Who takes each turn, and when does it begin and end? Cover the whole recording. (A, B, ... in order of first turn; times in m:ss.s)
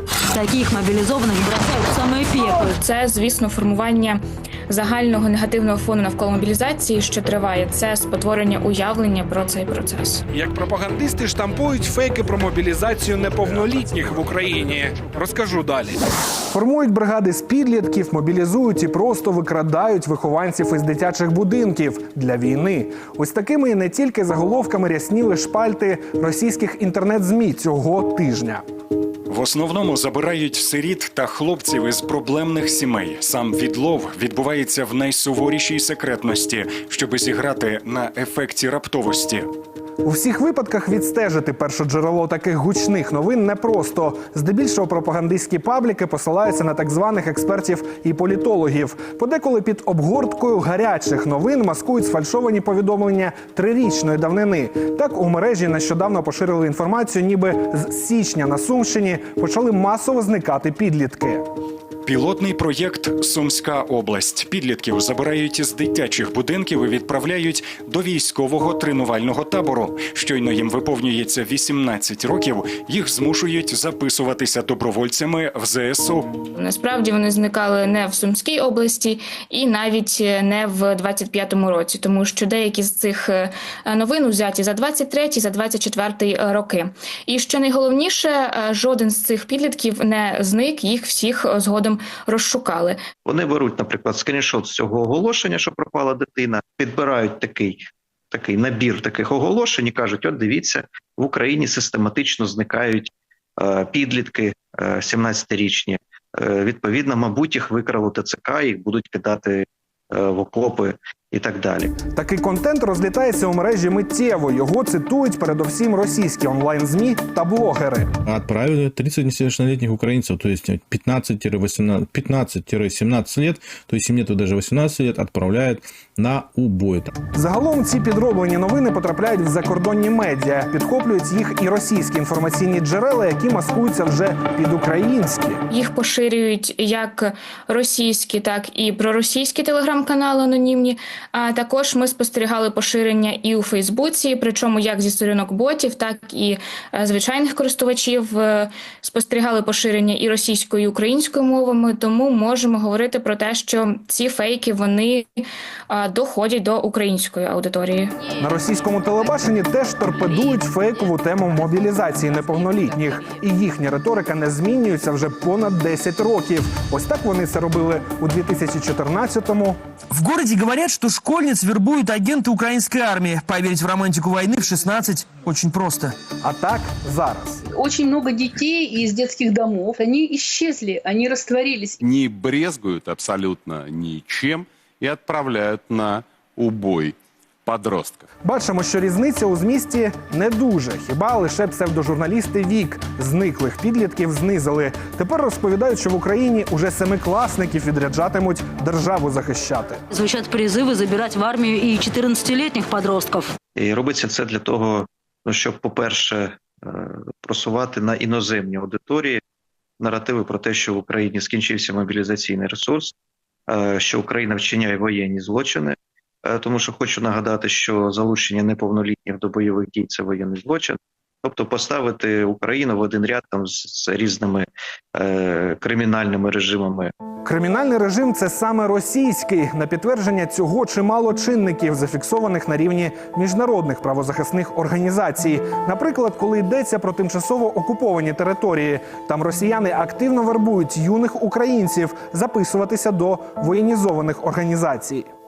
0:00.3-0:02.7 A
0:02.4-0:10.2 B
0:10.3-0:16.0 C
0:13.6-0:14.3 D
0:16.5-0:28.6 C
0:29.3-0:39.5 E
0:40.0-1:01.4 C
1:02.0-1:16.4 E
1:16.5-1:33.0 B
1:33.2-1:37.8 F
1:38.3-1:51.9 F
1:52.1-1:58.1 C
1:58.2-2:07.1 G
2:07.3-2:15.6 C
2:15.7-2:38.2 B
2:38.4-2:49.8 C
2:50.2-2:56.1 H
2:56.4-2:57.6 C
2:57.7-3:02.0 I
3:02.0-3:07.1 D
3:07.6-3:08.2 D
3:08.4-3:20.0 C
3:20.1-3:23.5 A
3:23.8-3:29.4 F
3:30.0-3:33.1 F
3:33.7-3:36.0 F
3:36.5-3:47.1 F
3:47.4-4:05.3 C